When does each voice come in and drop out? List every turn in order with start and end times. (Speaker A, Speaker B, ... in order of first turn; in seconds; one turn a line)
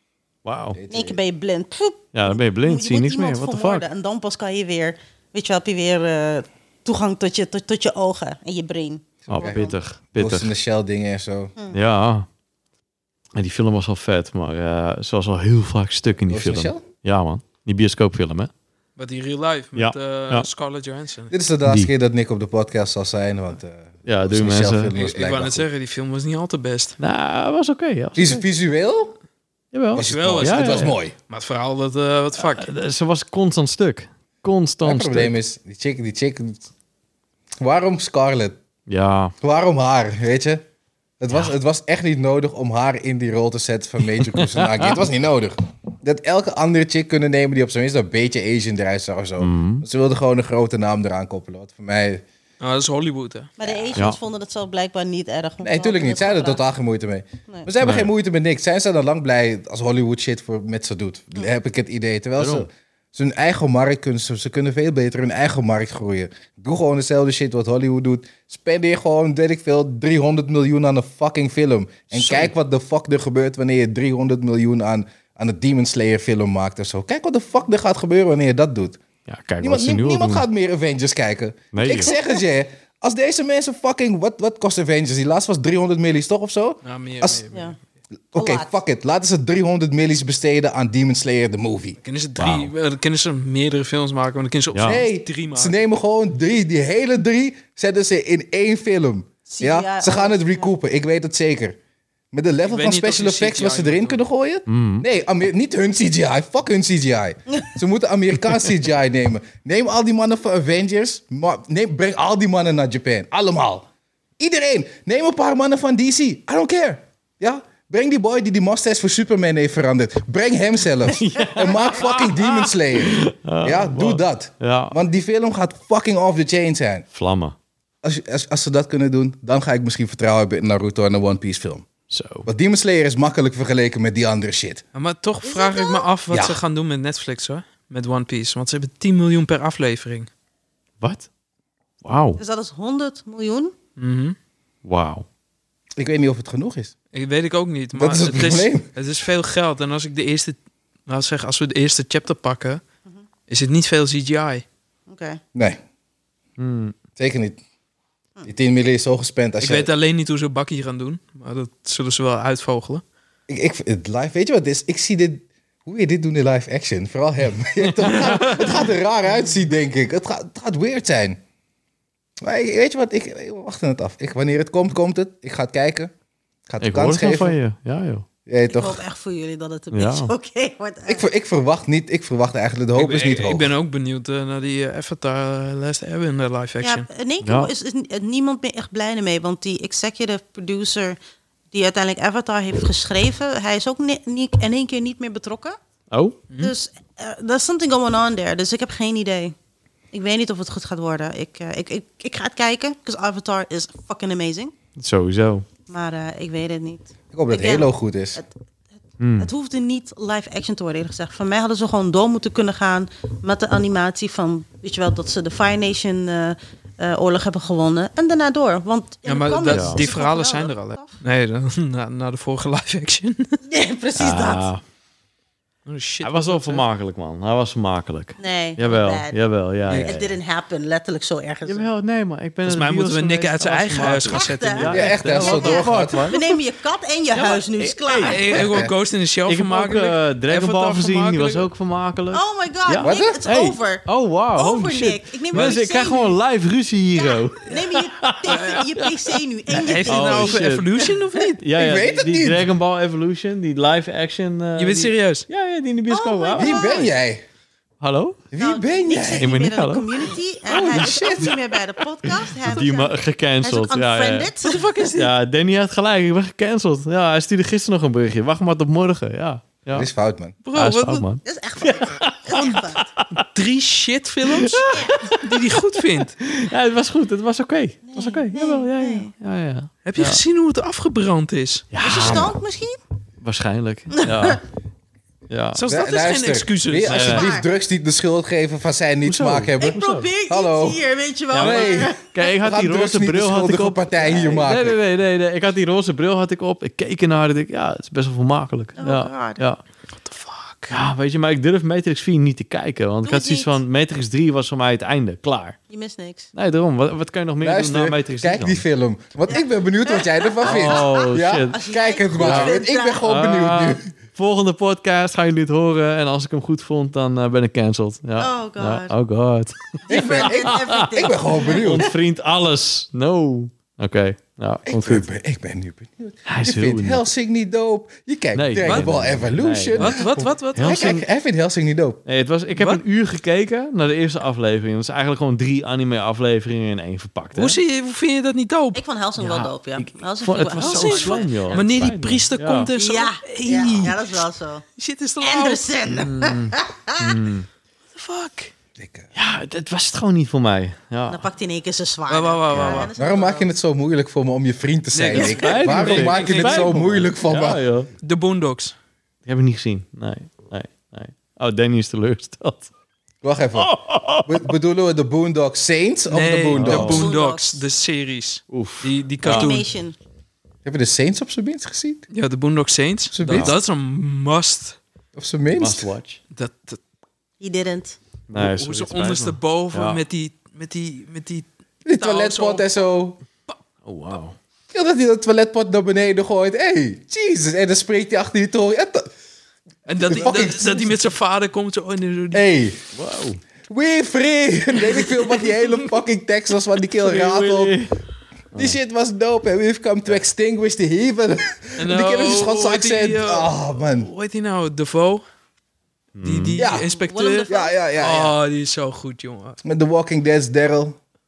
Speaker A: 0.5-0.8
Speaker B: 0.7-1.2
Speaker C: 0.9-9.8
Speaker A: 2.1-3.9
Speaker B: 9.3-11.6
Speaker A: 9.3-10.5
Speaker A: 11.7-12.3
Speaker A: 13.3-18.5
Speaker B: 16.3-16.9
Speaker D: 19.0-21.4
Speaker A: 19.8-20.5
Speaker B: 21.3-25.7
Speaker A: 21.7-21.9
Speaker A: 24.1-24.9
Speaker D: 24.9-27.0
Speaker A: 27.0-28.4
Speaker B: 28.2-29.2
Speaker A: 29.7-30.9
Speaker B: 29.9-31.1
Speaker D: 30.0-32.7
Speaker A: 32.4-35.3
Speaker B: 34.8-36.7
Speaker B: 37.6-38.6
Speaker A: 38.9-39.4
Speaker B: 39.4-40.6
Speaker B: 41.2-52.2
Speaker A: 44.1-45.0
Speaker A: 49.4-49.9
Speaker D: 52.6-53.5
Speaker C: 53.6-56.6
Speaker B: 55.6-79.0
Speaker A: 57.8-58.1
Speaker A: 62.4-62.7
Speaker A: 79.3-80.5
Speaker B: 79.6-87.4
Speaker A: 81.7-82.1
Speaker D: 86.8-87.8
Speaker B: 88.3-92.0
Speaker C: 88.3-88.8
Speaker D: 92.0-95.8
Speaker A: 92.4-92.7
Speaker A: 94.7-95.0
Speaker B: 94.8-101.8
Speaker C: 99.5-100.7
Speaker B: 102.3-113.9
Speaker D: 102.7-104.2
Speaker A: 104.7-105.0
Speaker B: 114.4-127.1
Speaker A: 121.1-125.0
Speaker A: 127.1-127.6
Speaker B: 128.0-131.9
Speaker A: 132.1-132.5
Speaker B: 132.4-134.8
Speaker D: 134.9-140.3
Speaker C: 135.4-136.1
Speaker B: 136.3-136.6
Speaker A: 141.0-141.3
Speaker A: 142.0-142.4
Speaker C: 142.4-143.7
Speaker D: 144.0-144.4
Speaker A: 144.8-145.2
Speaker B: 146.0-146.9
Speaker D: 147.1-150.6
Speaker B: 147.9-148.9
Speaker D: 151.1-152.8
Speaker D: 153.5-154.6
Speaker C: 155.1-155.4
Speaker B: 155.5-155.8
Speaker A: 156.6-157.0
Speaker B: 157.2-157.6
Speaker B: 158.4-159.9
Speaker D: 159.6-163.0
Speaker B: 163.5-171.4
Speaker A: 168.0-168.8
Speaker B: 172.4-176.1
Speaker B: 176.7-177.6
Speaker A: 176.8-178.3
Speaker B: 178.5-179.0
Speaker C: 178.7-181.2
Speaker A: 179.9-180.3
Speaker B: 181.1-183.8
Speaker D: 182.9-187.1
Speaker C: 186.8-191.2
Speaker A: 187.4-187.7
Speaker C: 191.7-195.8
Speaker A: 196.1-196.4
Speaker C: 196.6-199.6
Speaker C: 200.1-204.7
Speaker A: 205.0-205.7
Speaker C: 205.9-208.5
Speaker B: 207.3-208.4
Speaker A: 209.2-209.5
Speaker C: 209.4-221.2
Speaker D: 219.2-223.6
Speaker A: 219.7-220.1
Speaker C: 223.7-224.7
Speaker A: 224.2-224.8
Speaker D: 225.9-226.8
Speaker A: 226.2-230.4
Speaker C: 228.4-231.9
Speaker A: 231.7-236.4
Speaker D: 232.7-235.2
Speaker C: 234.2-238.7
Speaker B: 234.9-236.3
Speaker A: 237.4-238.6
Speaker D: 238.2-241.7
Speaker B: 238.5-238.9
Speaker A: 239.5-250.9
Speaker C: 242.3-246.4
Speaker B: 243.0-243.4
Speaker C: 247.2-251.5
Speaker D: 248.5-248.9
Speaker D: 249.7-251.6
Speaker A: 251.6-257.0
Speaker B: 251.8-252.7
Speaker D: 254.8-255.5
Speaker C: 256.1-257.1
Speaker B: 256.6-257.4
Speaker A: 258.0-258.4
Speaker B: 258.5-259.5
Speaker C: 258.6-264.9
Speaker A: 259.4-260.1
Speaker B: 260.7-261.6
Speaker A: 260.7-261.6
Speaker A: 262.3-270.1
Speaker D: 264.6-265.3
Speaker B: 269.9-270.6
Speaker D: 270.6-271.3
Speaker A: 270.7-273.5
Speaker C: 271.4-273.0
Speaker D: 273.5-276.4
Speaker A: 274.4-275.6
Speaker C: 274.9-275.2
Speaker A: 276.4-280.4
Speaker C: 278.1-279.3
Speaker D: 280.1-281.9
Speaker A: 281.9-282.5
Speaker C: 282.0-283.0
Speaker A: 283.4-284.6
Speaker C: 284.1-284.6
Speaker A: 285.5-285.8
Speaker D: 285.7-287.3
Speaker B: 285.9-295.0
Speaker A: 287.1-287.5
Speaker C: 287.1-287.7
Speaker A: 289.2-290.3
Speaker C: 289.8-292.4
Speaker A: 291.5-299.8
Speaker C: 299.0-299.6
Speaker D: 300.2-300.9
Speaker A: 300.9-305.8
Speaker C: 303.2-303.8
Speaker C: 305.9-306.5
Speaker A: 306.5-308.8
Speaker B: 307.6-314.1
Speaker C: 309.5-313.2
Speaker A: 310.6-311.8
Speaker A: 312.4-325.3
Speaker C: 318.4-319.1
Speaker C: 320.1-322.1
Speaker B: 320.1-322.1
Speaker B: 324.9-332.2
Speaker A: 326.5-327.2
Speaker A: 328.6-331.2
Speaker D: 328.8-329.1
Speaker D: 330.0-331.1
Speaker A: 332.3-337.8
Speaker D: 332.8-333.0
Speaker D: 337.6-339.0
Speaker C: 338.9-341.8
Speaker A: 339.4-342.9
Speaker D: 340.8-344.3
Speaker C: 343.0-344.8
Speaker D: 345.0-345.9
Speaker C: 345.4-347.4
Speaker A: 346.1-347.7
Speaker D: 348.1-348.7
Speaker B: 349.0-349.3
Speaker A: 349.4-351.5
Speaker C: 351.3-353.7
Speaker D: 352.3-353.1
Speaker A: 352.7-353.1
Speaker B: 353.2-357.8
Speaker D: 355.1-357.0
Speaker A: 355.3-358.1
Speaker D: 358.2-358.9
Speaker A: 359.5-362.9
Speaker B: 363.4-363.9
Speaker A: 363.8-364.7
Speaker B: 364.4-367.3
Speaker D: 366.3-369.9
Speaker A: 366.7-367.3
Speaker C: 367.1-367.8
Speaker A: 368.7-369.7
Speaker C: 369.4-370.2
Speaker B: 370.9-372.2
Speaker D: 372.3-375.0
Speaker B: 373.3-373.7
Speaker A: 373.5-373.8
Speaker B: 375.4-376.1
Speaker A: 375.8-376.4
Speaker D: 376.5-377.0
Speaker C: 377.6-378.2
Speaker A: 378.5-380.2
Speaker D: 378.5-381.7
Speaker B: 382.1-383.4
Speaker D: 382.2-382.9
Speaker A: 384.0-384.6
Speaker B: 384.9-389.3
Speaker D: 390.1-392.7
Speaker B: 390.3-391.1
Speaker B: 392.5-393.0
Speaker A: 393.1-393.6
Speaker B: 393.9-398.0
Speaker A: 397.2-398.2
Speaker B: 398.8-404.3
Speaker D: 402.0-405.4
Speaker A: 406.4-406.8
Speaker D: 406.4-409.8
Speaker B: 406.8-407.1
Speaker C: 407.1-407.9
Speaker B: 407.7-408.6
Speaker B: 409.8-411.2